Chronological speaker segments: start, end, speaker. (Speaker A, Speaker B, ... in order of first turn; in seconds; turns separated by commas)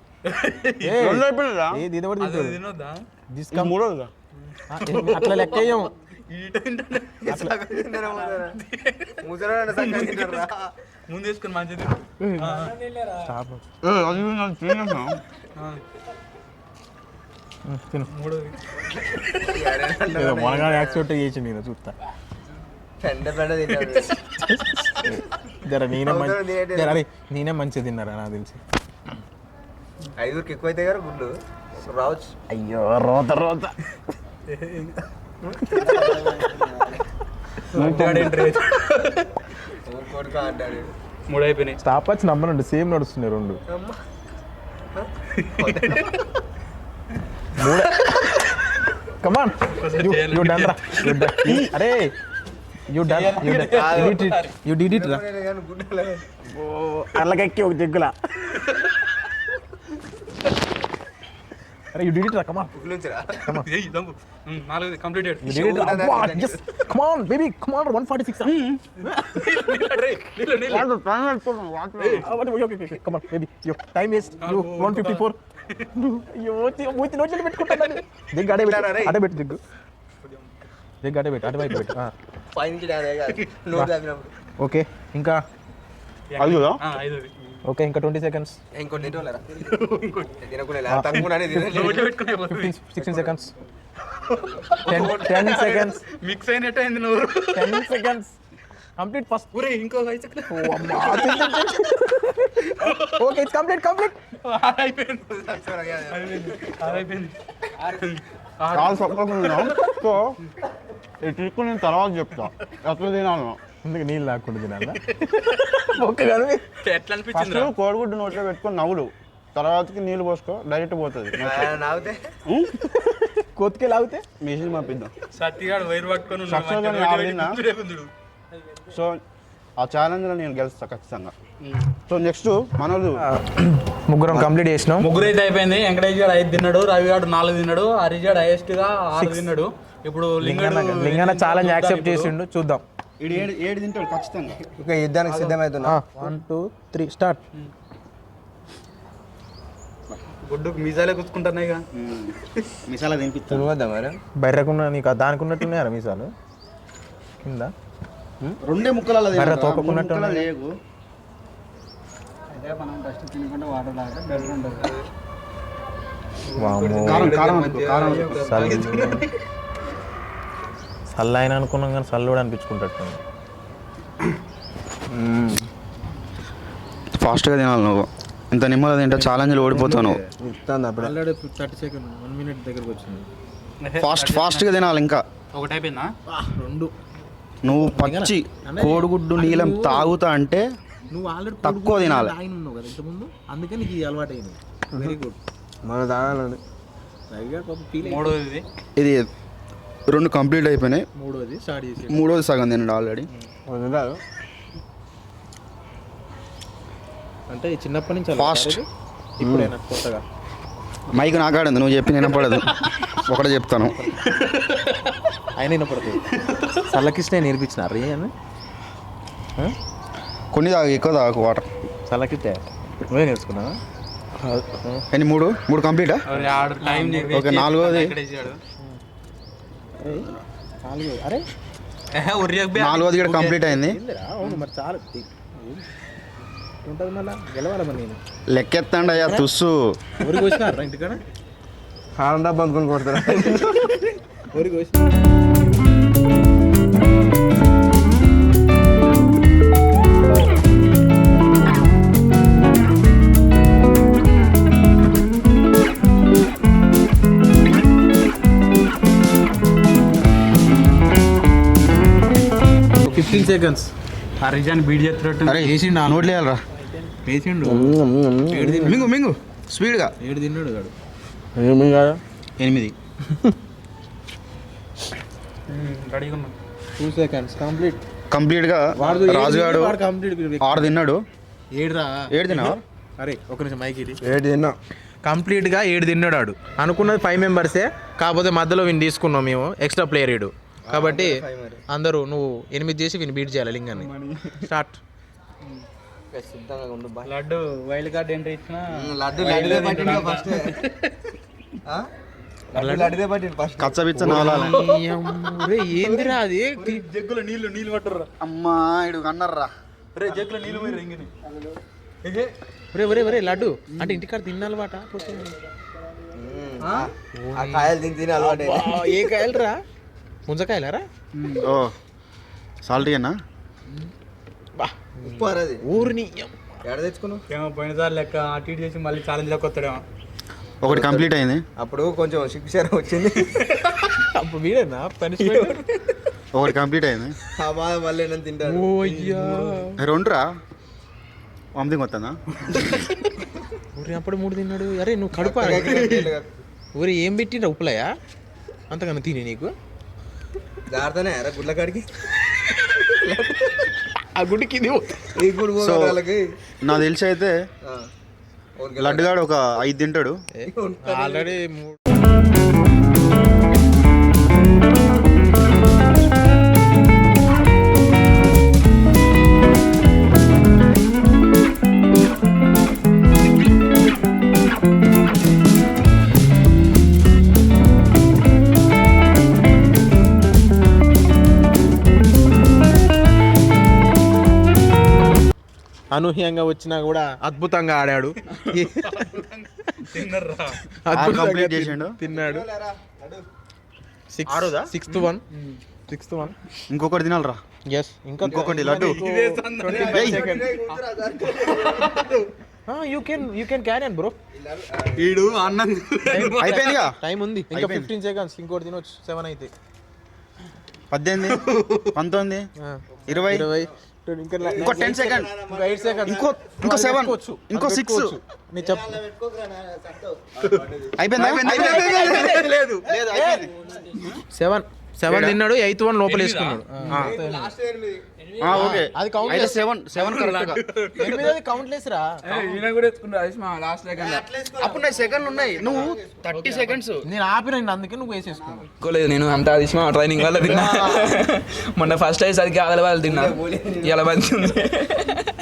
Speaker A: 0.2-1.1, Speaker B: 0.8-2.6, Speaker C: 1.0-1.9, Speaker A: 2.2-3.1, Speaker B: 3.3-3.7, Speaker C: 3.5-4.1, Speaker A: 4.4-10.4, Speaker B: 4.7-5.9, Speaker D: 7.3-8.6, Speaker D: 9.2-10.7, Speaker A: 11.1-13.2, Speaker B: 12.2-13.6, Speaker C: 13.8-15.2, Speaker B: 17.6-18.1, Speaker A: 18.1-18.8, Speaker D: 19.3-21.1, Speaker B: 20.0-21.9, Speaker D: 23.0-24.1, Speaker B: 24.4-28.6, Speaker D: 26.0-27.0, Speaker D: 30.2-32.3, Speaker B: 32.5-33.8, Speaker A: 34.5-35.0, Speaker D: 35.5-37.0, Speaker A: 37.7-39.3, Speaker B: 37.7-38.3, Speaker D: 39.9-40.9, Speaker A: 41.3-41.8, Speaker B: 41.8-43.6, Speaker D: 43.7-44.0, Speaker A: 45.3-46.2, Speaker D: 45.6-46.0, Speaker B: 47.5-48.5, Speaker A: 47.8-48.3, Speaker B: 49.2-52.1, Speaker A: 49.7-51.6, Speaker B: 52.9-55.2, Speaker A: 53.0-54.5, Speaker D: 53.6-54.2, Speaker D: 54.8-56.2, Speaker B: 56.5-58.1, Speaker A: 58.5-59.1, Speaker B: 61.9-62.7, Speaker D: 62.7-63.5, Speaker A: 63.5-65.7, Speaker B: 65.4-69.4, Speaker D: 65.5-66.6, Speaker A: 68.5-70.9, Speaker C: 70.7-72.2, Speaker A: 72.0-72.3, Speaker B: 72.2-75.4, Speaker A: 74.4-75.8, Speaker B: 75.9-79.6, Speaker A: 77.7-77.9, Speaker D: 78.4-79.2, Speaker A: 80.2-80.6, Speaker B: 81.0-82.1, Speaker D: 82.5-84.3, Speaker B: 84.6-85.4, Speaker A: 86.3-87.3, Speaker C: 86.4-86.8, Speaker B: 87.6-88.6, Speaker D: 88.7-89.6, Speaker A: 89.6-90.5, Speaker D: 90.4-92.1, Speaker B: 90.9-93.5, Speaker A: 91.1-92.8, Speaker D: 93.0-93.3, Speaker A: 94.2-97.8, Speaker B: 94.8-96.0, Speaker D: 94.9-95.2, Speaker B: 97.5-98.3, Speaker B: 99.0-99.5, Speaker A: 99.5-101.7, Speaker B: 100.5-104.2, Speaker A: 102.6-103.3, Speaker A: 104.4-109.9, Speaker D: 105.5-107.0, Speaker C: 108.7-110.3, Speaker C: 111.2-113.6, Speaker B: 113.8-115.0, Speaker A: 115.0-115.8, Speaker B: 115.6-116.6, Speaker A: 116.8-117.7, Speaker C: 117.3-121.8, Speaker D: 121.4-122.3, Speaker C: 122.5-122.7, Speaker B: 122.9-124.2, Speaker C: 124.4-125.1, Speaker A: 125.3-128.1, Speaker C: 126.5-127.6, Speaker C: 128.9-129.2, Speaker C: 129.8-131.3, Speaker A: 131.6-131.9, Speaker C: 132.0-133.2, Speaker B: 133.2-135.1, Speaker A: 135.0-142.3, Speaker B: 139.1-139.5, Speaker B: 140.4-142.8, Speaker C: 143.2-144.6, Speaker D: 144.7-146.0, Speaker A: 145.3-145.6, Speaker B: 145.8-147.4, Speaker A: 150.3-151.8, Speaker C: 151.9-153.6, Speaker D: 153.5-154.2, Speaker B: 154.4-156.3, Speaker B: 157.4-157.7, Speaker C: 158.6-160.7, Speaker B: 159.3-160.5, Speaker A: 164.2-165.0, Speaker D: 164.5-164.9, Speaker A: 166.5-169.3, Speaker B: 166.6-167.4, Speaker C: 167.1-168.6, Speaker B: 168.3-169.3, Speaker B: 171.1-173.2, Speaker D: 175.1-175.7, Speaker C: 177.2-180.2, Speaker B: 179.1-180.3, Speaker D: 179.7-181.1, Speaker B: 180.9-183.3, Speaker A: 183.8-184.7, Speaker C: 184.0-185.2, Speaker A: 185.5-186.1, Speaker B: 186.3-186.9, Speaker C: 187.6-190.6, Speaker B: 187.8-190.2, Speaker B: 191.1-195.4, Speaker C: 191.6-192.3, Speaker D: 195.8-196.6, Speaker B: 197.3-198.3, Speaker A: 198.0-198.7, Speaker C: 198.9-199.3, Speaker C: 200.1-201.1, Speaker B: 201.1-202.3, Speaker C: 202.1-203.3, Speaker D: 203.7-204.2, Speaker B: 207.5-210.2, Speaker C: 208.3-208.8, Speaker D: 209.4-209.7, Speaker C: 211.1-212.7, Speaker A: 212.5-213.1, Speaker C: 213.2-214.0, Speaker A: 214.1-215.2, Speaker B: 215.5-216.2, Speaker A: 216.3-216.9, Speaker B: 216.9-218.3, Speaker C: 220.5-221.7, Speaker B: 222.1-223.8, Speaker B: 224.4-225.0, Speaker C: 225.1-226.2, Speaker A: 226.3-228.6, Speaker B: 226.4-227.4, Speaker C: 227.3-228.1, Speaker B: 230.0-231.5, Speaker A: 232.1-233.7, Speaker C: 232.8-234.0, Speaker B: 233.6-235.8, Speaker B: 236.8-238.2, Speaker C: 238.5-240.0, Speaker B: 239.1-239.5, Speaker B: 240.2-241.2, Speaker D: 242.2-244.1, Speaker B: 244.5-245.0, Speaker B: 263.0-263.9, Speaker A: 263.1-263.8, Speaker A: 264.4-265.7, Speaker C: 265.4-266.6, Speaker B: 265.6-266.3, Speaker B: 267.1-269.1, Speaker D: 267.6-269.0, Speaker C: 268.9-270.1, Speaker B: 270.2-270.9, Speaker D: 271.6-272.2, Speaker C: 272.6-272.9, Speaker A: 275.7-276.5, Speaker B: 277.0-278.0, Speaker C: 278.3-280.0, Speaker B: 279.0-280.9, Speaker C: 280.6-281.2, Speaker B: 281.7-284.2, Speaker C: 282.3-282.8, Speaker D: 284.2-284.8, Speaker B: 285.2-294.1, Speaker D: 290.9-291.8, Speaker D: 294.0-294.3, Speaker B: 294.6-295.0, Speaker D: 296.3-297.3, Speaker A: 297.2-301.1, Speaker D: 298.9-300.8, Speaker D: 302.7-304.6, Speaker B: 302.7-303.1, Speaker C: 303.8-304.7, Speaker B: 304.2-307.0, Speaker A: 304.3-308.3, Speaker C: 308.4-309.7, Speaker A: 310.1-311.3, Speaker A: 312.2-312.5, Speaker B: 312.9-315.5, Speaker A: 313.9-314.2, Speaker D: 316.3-319.4, Speaker B: 317.3-319.8, Speaker B: 320.4-321.1, Speaker A: 321.3-321.7, Speaker C: 321.6-321.9, Speaker C: 322.8-323.4, Speaker B: 324.8-326.6, Speaker D: 325.2-325.8, Speaker D: 326.8-327.4, Speaker A: 327.5-330.0, Speaker C: 330.8-331.6, Speaker D: 330.8-333.5, Speaker B: 334.3-335.8, Speaker D: 335.4-336.0, Speaker C: 336.5-337.3, Speaker D: 337.5-339.1, Speaker B: 338.6-340.0, Speaker A: 339.1-339.8, Speaker C: 340.0-340.5, Speaker C: 341.7-342.4, Speaker A: 342.7-343.0, Speaker B: 343.9-346.3, Speaker D: 345.3-346.5, Speaker B: 346.9-348.1, Speaker B: 348.9-349.7, Speaker D: 350.9-352.1, Speaker B: 352.6-353.1, Speaker D: 353.1-353.9, Speaker B: 354.3-355.4, Speaker D: 355.3-356.4, Speaker C: 355.8-356.2, Speaker C: 356.8-357.6, Speaker D: 358.8-359.4, Speaker C: 359.0-360.4, Speaker B: 360.6-362.0, Speaker D: 360.7-361.5, Speaker B: 386.1-389.3, Speaker A: 388.4-390.9, Speaker B: 390.9-392.6, Speaker C: 391.1-392.2, Speaker D: 392.3-393.4, Speaker B: 394.3-395.4, Speaker C: 394.5-394.9, Speaker A: 395.1-395.8, Speaker B: 396.1-396.6, Speaker C: 396.9-397.6, Speaker B: 397.9-400.8, Speaker A: 398.4-400.2, Speaker C: 398.5-399.2, Speaker D: 399.8-402.4, Speaker C: 400.1-400.5, Speaker A: 400.9-402.4, Speaker B: 402.9-404.4, Speaker D: 404.5-405.8, Speaker A: 405.2-407.0, Speaker B: 406.2-409.7, Speaker C: 406.6-407.2, Speaker C: 407.7-408.1, Speaker C: 411.1-412.6, Speaker A: 411.6-411.9, Speaker B: 412.8-419.2, Speaker C: 413.3-413.6, Speaker D: 413.3-413.9, Speaker D: 414.6-416.5, Speaker C: 414.8-415.5, Speaker C: 416.3-418.4, Speaker D: 418.8-423.6, Speaker C: 421.2-422.5, Speaker B: 421.5-422.7, Speaker A: 421.5-422.8, Speaker C: 423.1-423.6, Speaker B: 423.3-423.7, Speaker B: 424.5-427.7, Speaker C: 425.3-425.6, Speaker A: 426.2-427.3, Speaker D: 427.1-428.2, Speaker C: 428.6-430.8, Speaker B: 428.7-429.8, Speaker A: 430.2-431.5, Speaker B: 431.1-432.3, Speaker A: 432.5-433.7, Speaker E: 432.8-434.4, Speaker D: 434.1-437.0, Speaker C: 434.7-437.2, Speaker B: 437.2-438.9, Speaker E: 439.0-445.0, Speaker D: 440.6-441.3, Speaker A: 440.7-441.2, Speaker D: 443.2-444.8